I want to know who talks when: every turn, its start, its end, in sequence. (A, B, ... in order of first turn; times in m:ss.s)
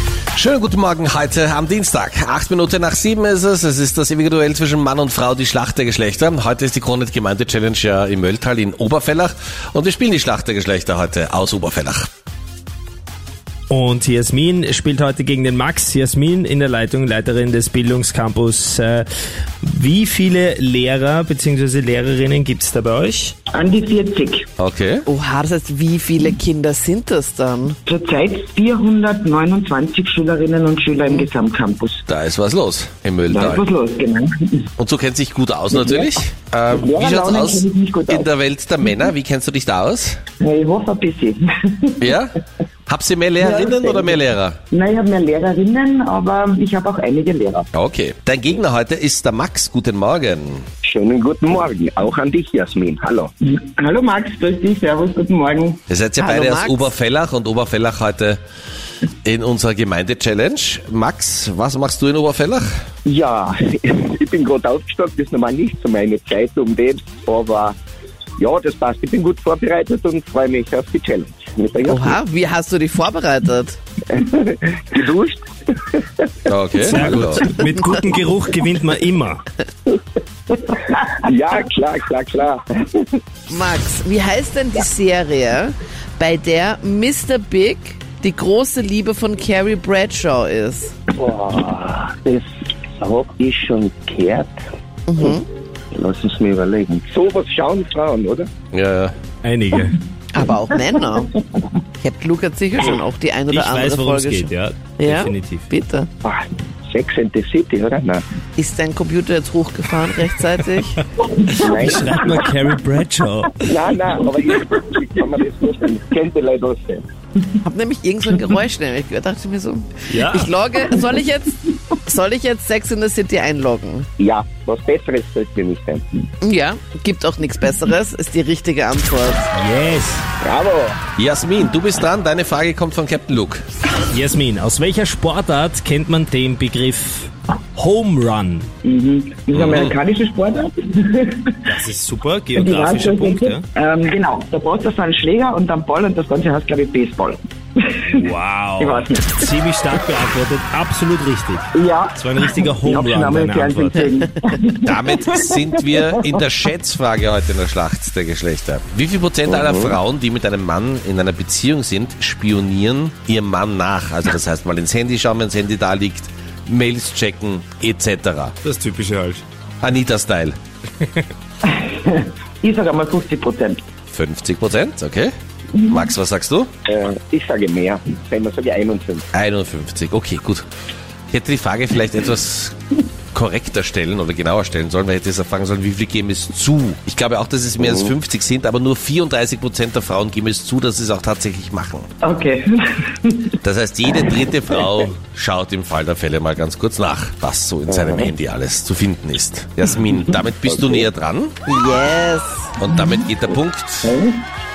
0:00.4-0:12.1 A
0:13.7-0:19.1 B
0:19.7-0:23.4 B
0:23.5-0:24.5 C
0:24.6-0:25.1 A
0:25.1-0:27.8 D
0:27.9-0:32.0 C
0:32.1-0:33.7 A
0:33.3-0:34.7 C
0:34.8-0:40.2 A
0:35.7-0:36.1 C
0:36.7-0:38.3 C
0:40.4-0:42.0 C
0:42.0-0:42.4 A
0:42.9-0:44.6 A
0:43.4-0:44.2 C
0:44.7-0:47.7 C
0:47.7-0:50.6 A
0:50.8-0:53.3 E
0:53.5-0:55.8 C
0:55.9-0:58.4 A
0:56.2-0:56.9 D
0:59.2-1:02.7 A
1:03.1-1:07.8 E
1:08.4-1:12.2 E
1:11.8-1:13.8 D
1:14.1-1:16.0 E
1:16.5-1:17.5 A
1:16.8-1:19.4 B
1:21.0-1:23.0 E
1:23.5-1:31.0 D
1:31.1-1:32.4 E
1:33.0-1:34.5 E
1:35.1-1:35.4 D
1:35.9-1:38.5 E
1:38.7-1:39.2 A
1:39.4-1:40.0 B
1:40.3-1:41.3 D
1:42.0-1:46.1 D
1:43.5-1:45.6 B
1:46.2-1:48.2 E
1:48.6-1:51.0 D
1:51.5-1:53.7 B
1:51.5-1:52.5 E
1:53.7-1:57.0 E
1:57.6-2:04.1 D
2:00.1-2:00.5 B
2:04.2-2:06.0 E
2:06.4-2:09.5 D
2:09.5-2:10.2 B
2:10.4-2:11.0 E
2:11.2-2:13.6 A
2:14.1-2:18.7 B
2:18.8-2:21.7 C
2:19.5-2:20.0 A
2:21.7-2:23.6 B
2:22.6-2:30.0 C
2:28.0-2:34.0 B
2:31.7-2:35.5 C
2:34.8-2:48.6 A
2:39.5-2:40.0 E
2:48.6-2:49.4 B
2:49.8-2:50.6 A
2:51.6-2:53.8 C
2:54.1-2:56.7 A
2:56.9-2:59.2 E
2:59.3-3:00.6 A
3:01.3-3:12.1 A
3:07.8-3:08.1 E
3:12.2-3:13.6 C
3:13.6-3:21.5 A
3:17.9-3:18.3 E
3:20.6-3:21.1 E
3:21.7-3:22.7 D
3:22.8-3:24.1 A
3:24.0-3:24.4 C